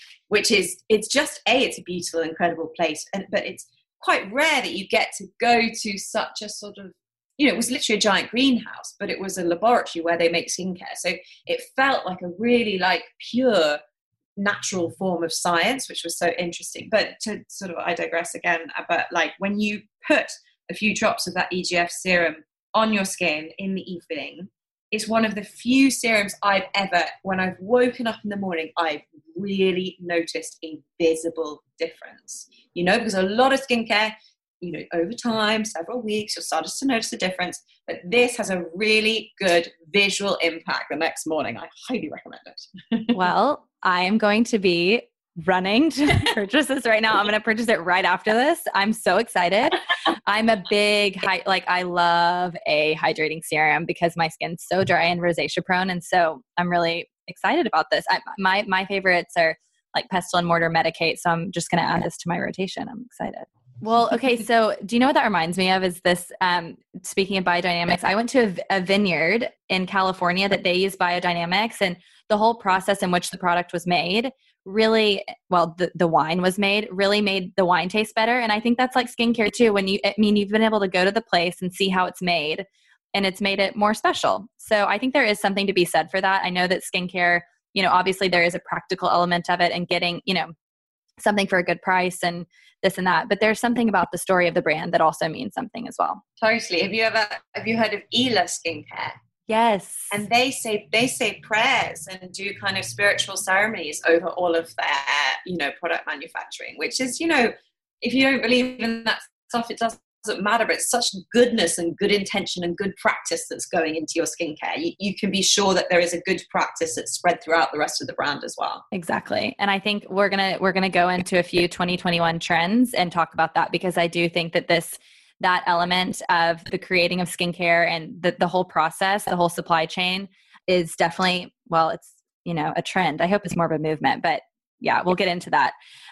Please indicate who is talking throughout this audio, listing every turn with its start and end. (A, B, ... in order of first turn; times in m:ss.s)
0:00.3-0:13.8 A
0:14.4-0:43.2 A
0:43.1-1:30.5 B
1:31.2-1:36.2 B
1:36.4-1:39.2 A
1:39.5-1:40.2 B
1:40.1-1:58.8 A
1:58.9-2:15.7 B